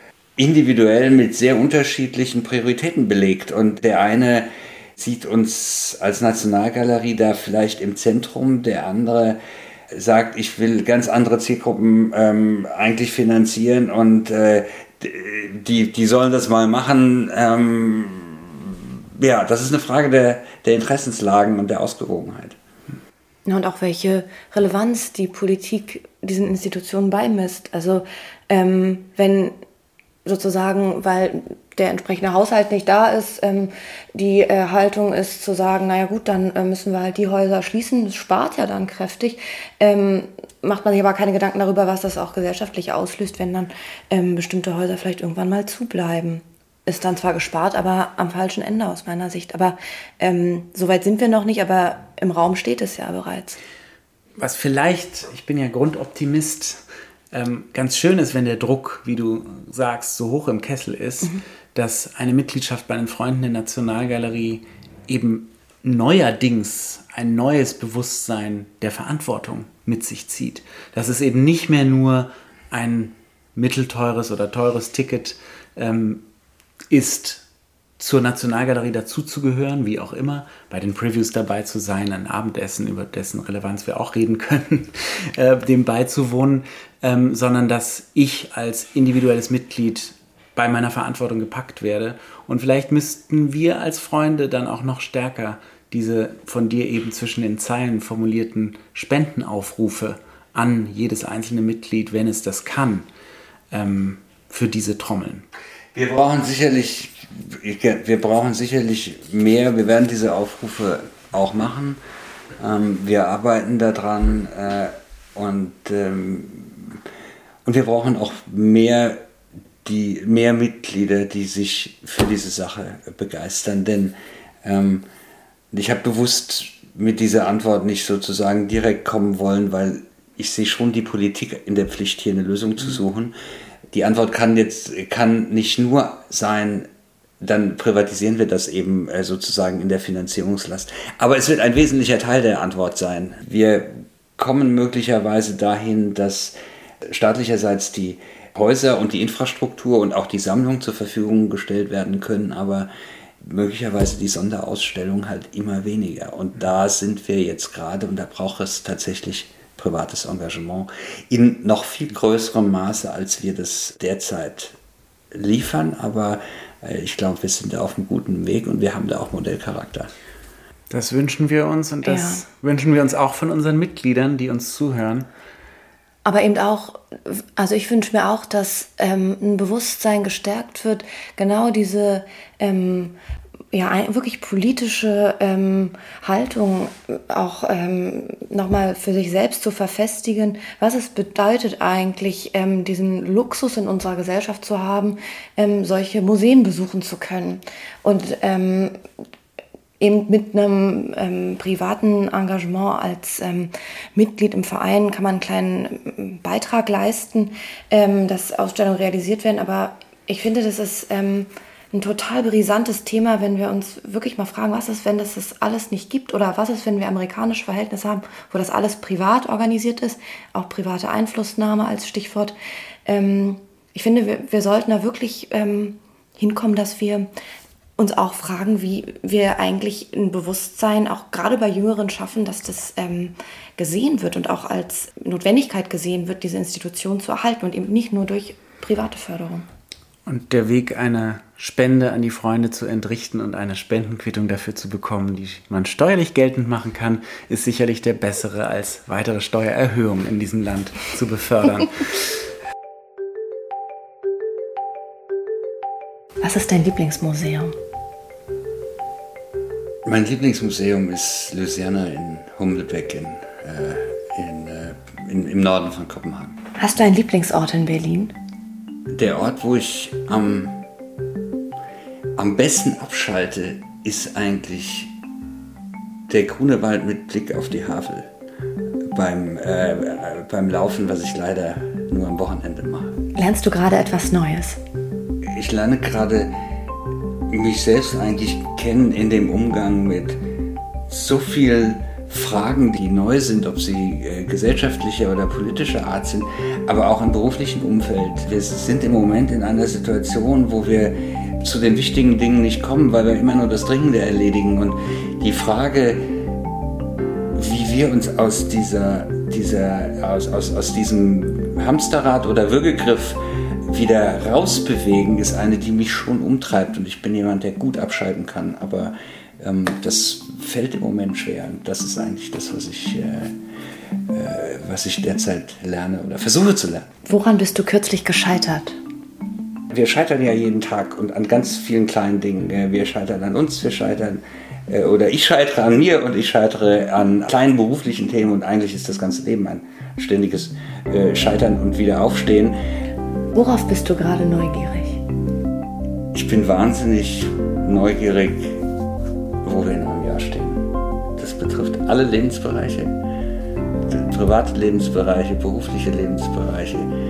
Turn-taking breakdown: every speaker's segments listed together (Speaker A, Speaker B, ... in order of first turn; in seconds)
Speaker A: 0.4-9.4, 9.9-22.6, 105.9-112.0, 112.6-117.0, 117.6-119.2, 119.8-125.0, 125.7-133.3, 133.9-136.9, 137.4-152.9, 153.4-164.7, 165.3-170.1, 260.0-266.6, 269.1-270.8, 272.4-275.1, 276.3-278.3, 279.1-283.2, 285.4-286.5, 287.5-290.4, 291.1-306.3, 307.5-323.5, 324.3-327.1, 329.9-342.8, 346.3-348.8, 349.6-353.1, 354.1-357.1
Speaker B: 23.4-29.5, 30.2-53.6, 172.0-172.4, 176.2-183.1, 183.7-199.0, 200.0-222.5, 223.1-227.3, 228.0-239.7, 256.4-257.7, 266.8-268.3, 283.3-284.8, 327.2-329.0, 343.5-345.2
Speaker C: 54.4-56.8, 57.3-76.2, 76.9-77.4, 78.0-103.0, 103.7-105.5, 170.9-175.2, 240.2-252.3